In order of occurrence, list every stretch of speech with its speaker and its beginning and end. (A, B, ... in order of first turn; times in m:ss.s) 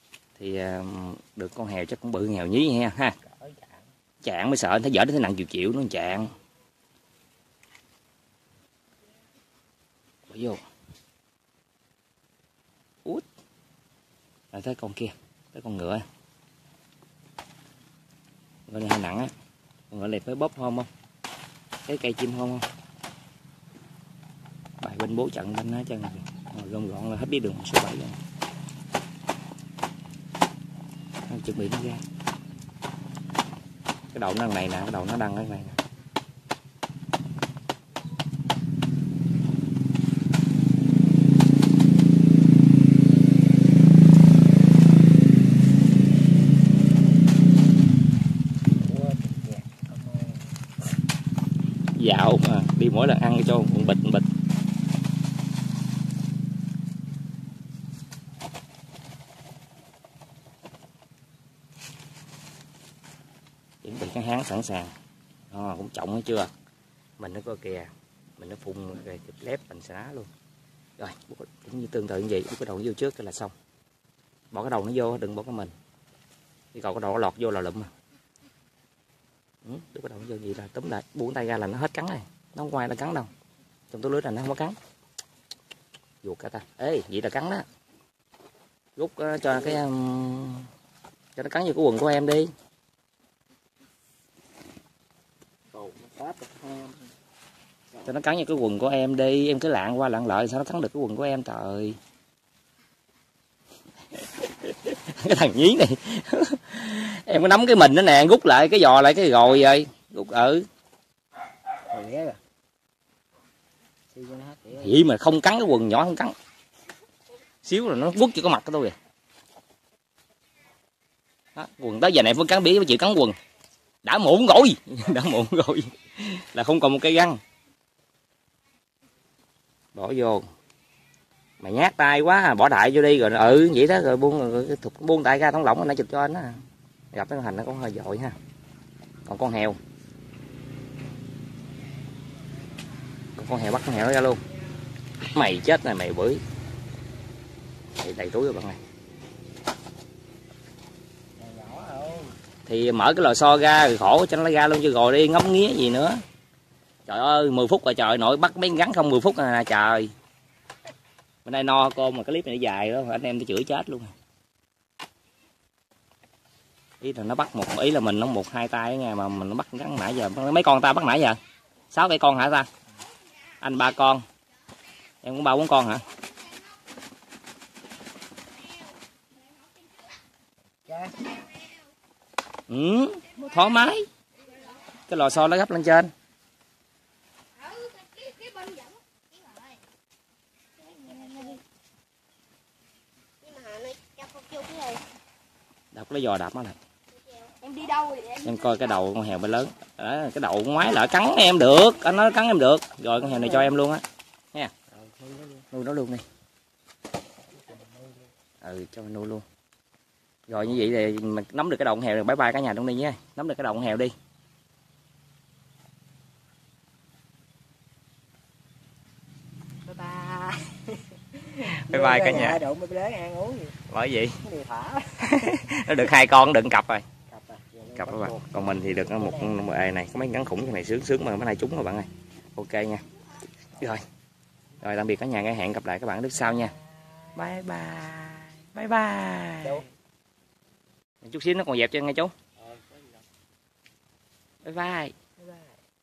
0:00.4-0:03.2 A
0:03.2-0:03.9 B
0:04.2-0:06.3 A
0:10.3-0:10.6 A
0:14.5-0:16.0 A
0:18.7-0:19.3 A
0:19.9-0:20.9 A
0:21.9-0:22.7 A
0:24.8-0:28.2 A
0:31.3-0:32.0 A
0:34.1-0:35.8 A
0:48.8-0:50.6 B
0:52.0-0:54.3 A
1:03.8-1:05.0 A
1:05.5-1:06.5 A
1:07.2-1:10.3 A
1:11.0-1:13.5 A
1:14.5-1:15.7 A
1:16.7-1:17.9 A
1:19.6-1:23.3 A
1:23.9-1:24.8 A
1:26.2-1:27.7 A
1:29.0-1:30.7 A
1:31.4-1:32.5 A
1:35.7-1:37.1 B
1:38.0-1:42.0 A
1:44.4-1:50.7 A
1:51.9-1:52.4 B
1:54.1-1:55.0 B
1:54.8-1:56.4 A
1:57.6-1:59.0 A
2:01.6-2:03.4 A
2:04.0-2:07.4 A
2:09.9-2:10.5 A
2:11.6-2:18.4 A
2:19.2-2:19.8 A
2:21.6-2:23.3 B
2:23.4-2:24.4 A
2:25.3-2:26.4 A
2:28.0-2:28.8 A
2:31.4-2:32.4 B
2:32.7-2:36.2 A
2:37.1-2:40.1 A
2:41.4-2:44.2 A
2:47.0-2:51.4 A
2:51.9-2:52.7 A
2:53.6-2:54.3 A
2:55.2-2:56.1 A
2:56.2-2:56.5 C
2:59.3-3:00.2 C
3:00.9-3:01.3 B
3:02.7-3:04.1 A
3:04.4-3:04.8 C
3:05.1-3:06.1 A
3:07.5-3:09.8 C
3:10.8-3:11.6 C
3:13.4-3:15.0 C
3:15.9-3:16.8 A
3:17.1-3:18.9 C
3:18.4-3:24.7 A
3:23.3-3:23.7 B
3:24.9-3:25.7 B
3:25.7-3:26.2 A
3:27.5-3:28.3 B
3:28.6-3:29.4 A
3:30.5-3:34.1 A
3:39.8-3:43.8 B
3:41.6-3:42.6 A
3:43.9-3:44.4 A
3:44.4-3:46.0 B
3:45.2-3:47.0 A
3:47.3-3:49.7 B
3:48.0-3:53.0 A
3:53.8-3:54.0 A
3:54.8-3:56.7 A
3:56.4-3:57.4 B
3:57.4-3:59.8 A
3:59.6-3:59.9 B
4:01.2-4:02.3 A
4:02.6-4:03.2 B
4:04.6-4:05.2 A
4:05.4-4:05.8 B